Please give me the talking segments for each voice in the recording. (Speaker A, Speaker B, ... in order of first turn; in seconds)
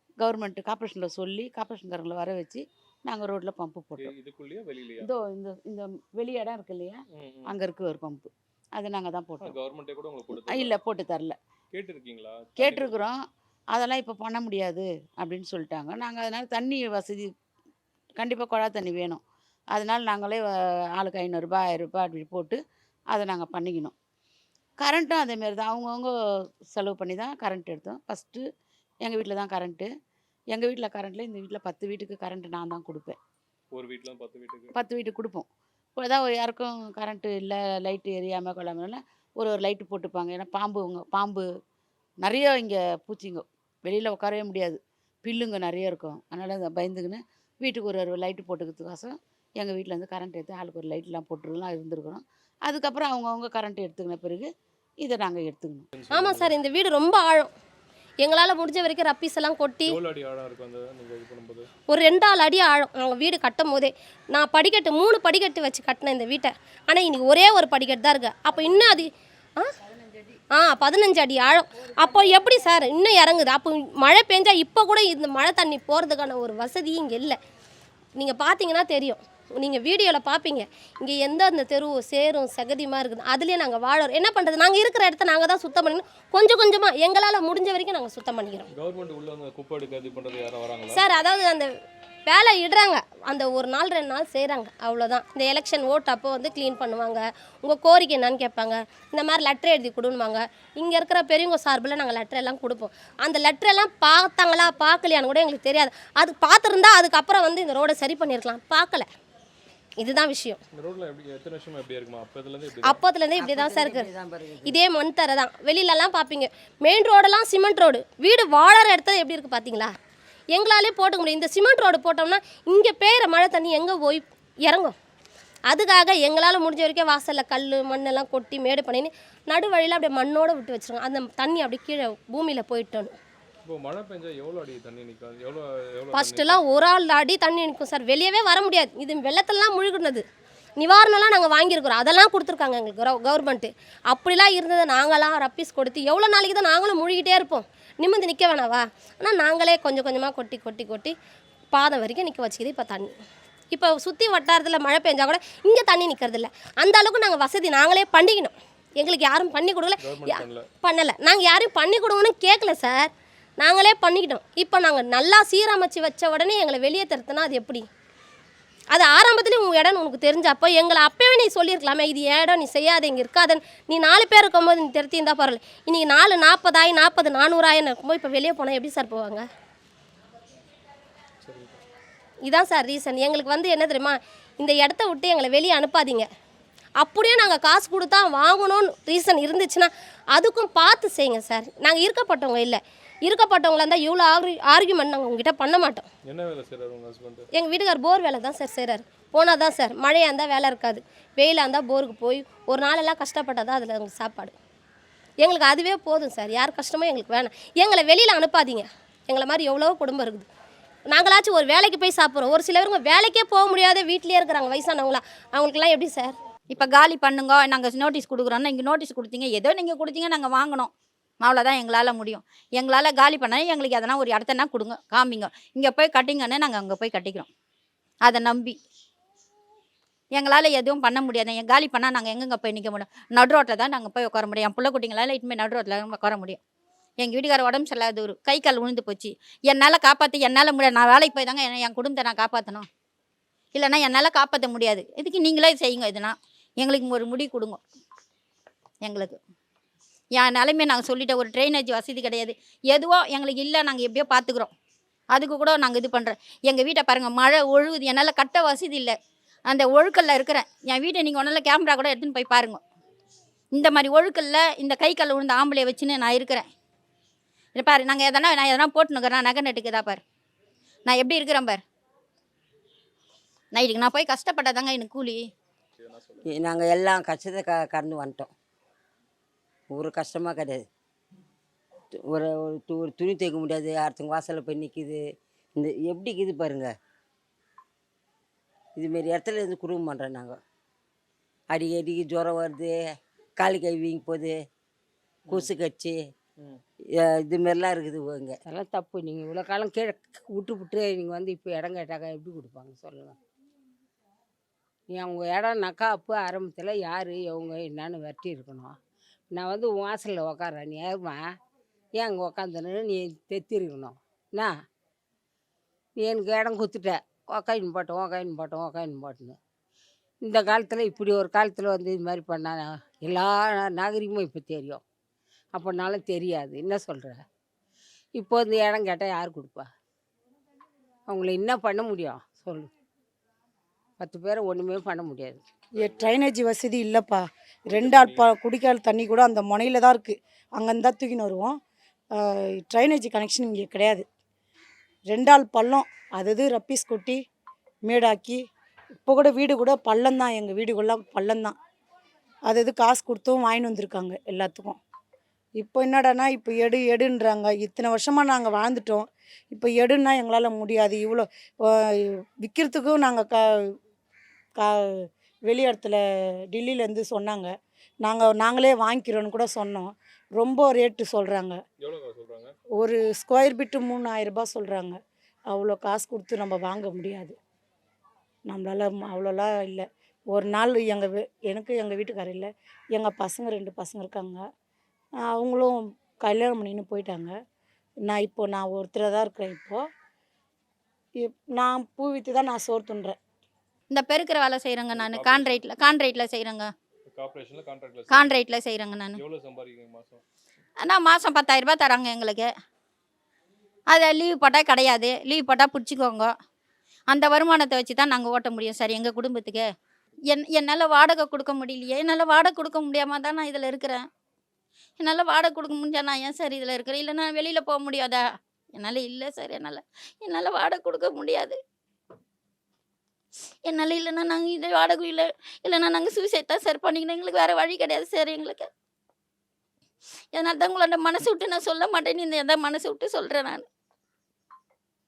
Speaker A: 0.2-4.1, 5.0-9.5, 10.3-11.3, 12.6-13.2, 13.7-17.3, 18.2-19.2, 19.7-22.6, 23.1-23.9, 24.8-26.1, 26.7-28.4, 29.0-29.9, 30.5-33.2, 34.7-35.5, 36.0-41.5, 42.2-54.5, 55.0-55.9
Speaker B: 4.0-5.1, 7.1-7.5, 9.4-10.7, 11.7-13.0, 33.7-34.7, 55.9-56.5, 59.9-61.7, 88.8-91.0, 110.8-113.0, 133.7-136.6, 160.0-160.7, 181.4-181.8, 196.3-197.5, 276.0-276.5, 335.9-336.4, 337.9-338.4, 372.0-372.7, 395.1-395.8, 397.3-398.5, 399.4-400.4
Speaker C: 56.1-57.5, 58.2-60.0, 61.9-69.7, 70.5-77.4, 78.2-88.7, 90.9-91.7, 92.3-109.1, 110.0-110.6, 112.8-114.1, 114.7-119.9, 120.5-124.9, 125.7-133.1, 136.1-140.2, 140.8-151.1, 151.7-153.1, 153.7-167.8, 168.9-179.4, 182.5-186.3, 187.0-196.1, 197.5-204.5, 205.4-210.5, 211.1-216.3
Speaker D: 113.4-114.8, 276.5-278.5, 279.9-280.8, 282.2-285.2, 285.8-286.9, 288.9-290.6, 291.7-292.9, 293.6-294.6, 295.5-296.2, 297.2-298.6
Speaker E: 216.7-220.9, 221.4-227.5, 228.2-228.8, 230.3-236.6, 237.2-242.9, 243.7-247.8, 249.0-249.4, 250.3-254.7, 255.3-259.2, 259.7-262.8, 263.7-266.7, 267.7-270.2, 271.1-271.8, 273.7-275.4, 394.1-396.9, 398.3-399.4, 401.0-402.7, 404.1-406.5, 407.3-409.9, 410.5-414.2, 415.2-418.4, 418.9-421.8, 423.9-428.9, 430.5-433.8
Speaker F: 298.7-303.4, 305.1-308.9, 309.5-311.4, 312.2-314.7, 316.2-319.6, 320.5-325.0, 325.7-327.4, 328.4-329.9, 331.3-332.9, 334.2-335.6
Speaker G: 335.9-341.8, 342.4-344.2, 345.3-347.4, 348.1-348.6, 349.2-351.8, 352.7-355.0, 355.8-363.9, 364.8-366.2, 366.7-367.7, 368.2-371.8, 373.0-375.2, 375.7-377.6, 378.7-384.6, 385.5-387.5, 388.2-390.0, 391.4-393.4